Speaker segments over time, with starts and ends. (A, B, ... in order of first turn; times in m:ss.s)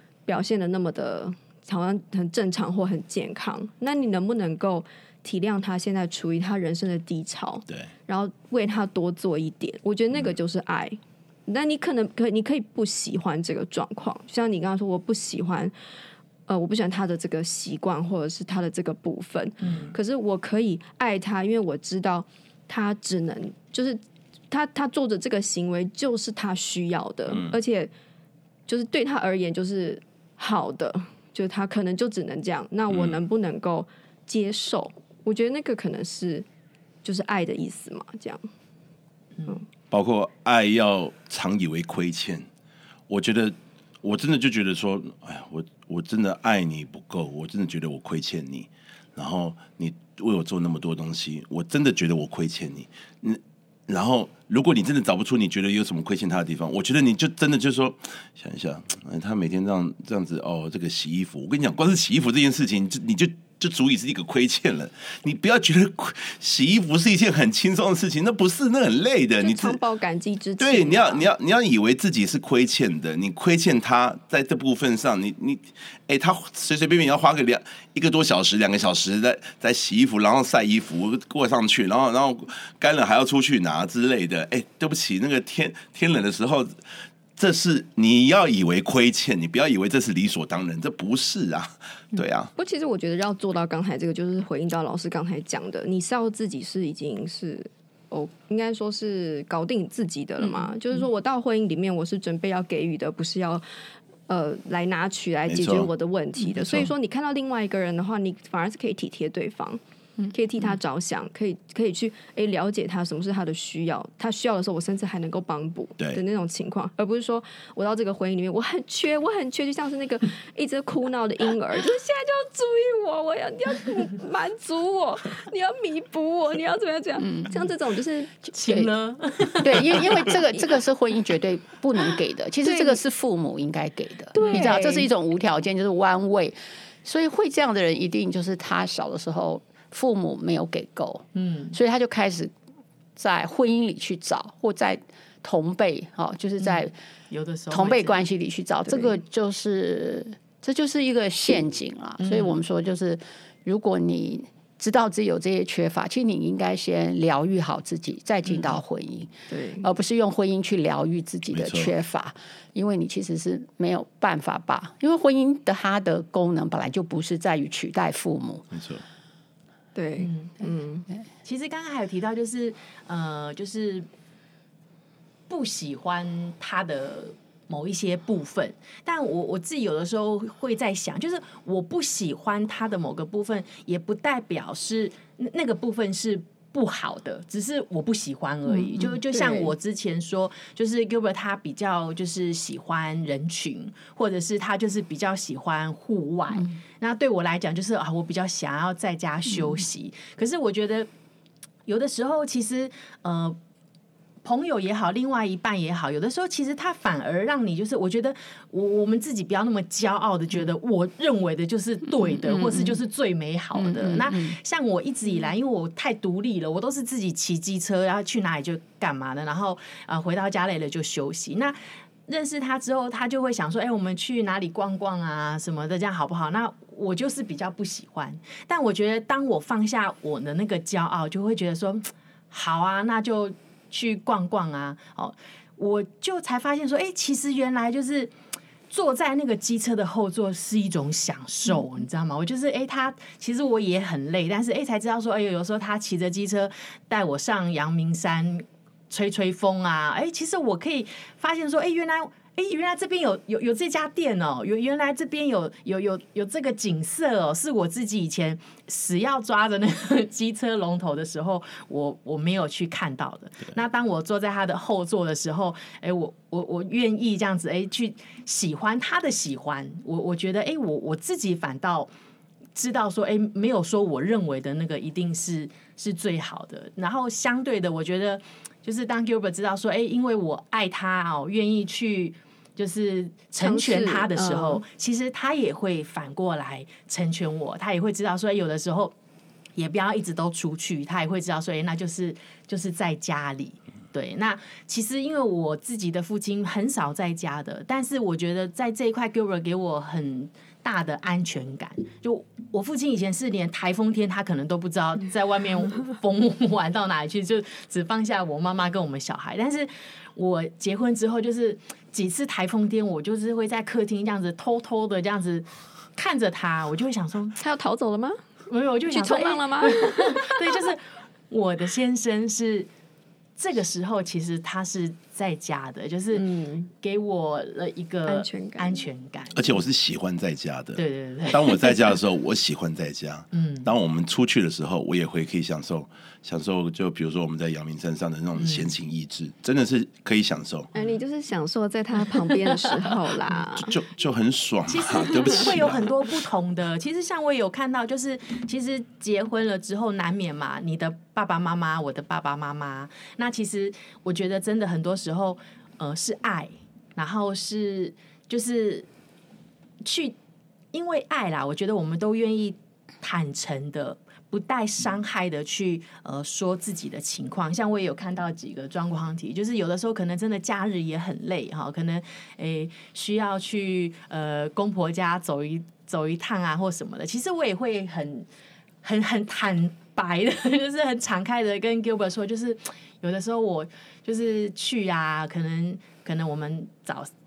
0:00.2-0:15.7 A
0:16.5-0:24.0 A
0:19.6-0:19.9 B
0:24.5-0:27.9 A
0:27.3-0:27.5 B
0:28.7-0:36.5 A
0:32.9-0:33.2 B
0:37.0-0:38.5 A
0:39.9-0:42.5 B
0:43.1-1:09.8 B
1:09.4-1:11.3 A
1:10.6-1:26.8 B
1:27.4-1:32.5 B
1:32.6-1:43.6 A
1:44.3-1:49.8 A
1:45.5-1:45.9 B
1:46.5-1:46.9 B
1:50.3-2:08.3 A
2:07.2-2:07.5 C
2:08.5-2:10.4 D
2:08.6-2:08.9 C
2:09.6-2:22.5 C
2:12.6-2:13.0 A
2:14.4-2:14.8 A
2:14.4-2:15.1 D
2:21.4-2:21.8 D
2:23.2-2:26.9 C
2:26.6-2:28.2 D
2:27.7-2:48.7 C
2:32.2-2:32.6 D
2:38.5-2:38.7 D
2:39.5-2:39.9 A
2:41.5-2:41.9 B
2:48.7-2:49.0 B
2:50.0-2:51.1 A
2:50.2-2:50.5 D
2:51.4-2:54.1 D
2:55.5-3:21.1 D
3:09.3-3:09.7 A
3:21.9-3:23.6 D
3:24.4-3:58.3 D
3:32.3-3:33.0 C
3:33.8-3:34.6 C
3:58.9-4:32.1 D
4:32.8-4:49.1 D
4:43.6-4:44.8 A
4:49.8-5:17.6 D
5:17.6-5:18.4 A
5:18.7-5:22.9 D
5:19.1-5:20.6 A
5:23.6-5:26.4 D
5:26.3-5:26.9 A
5:27.0-5:29.8 D
5:28.2-5:29.1 A
5:29.5-5:40.9 B
5:31.0-5:32.0 D
5:33.5-5:33.9 D
5:38.6-5:38.9 D
5:40.9-5:43.9 A
5:43.8-5:46.1 B
5:44.9-5:59.1 D
6:00.0-6:00.4 D
6:00.9-6:18.5 D
6:19.0-6:27.3 D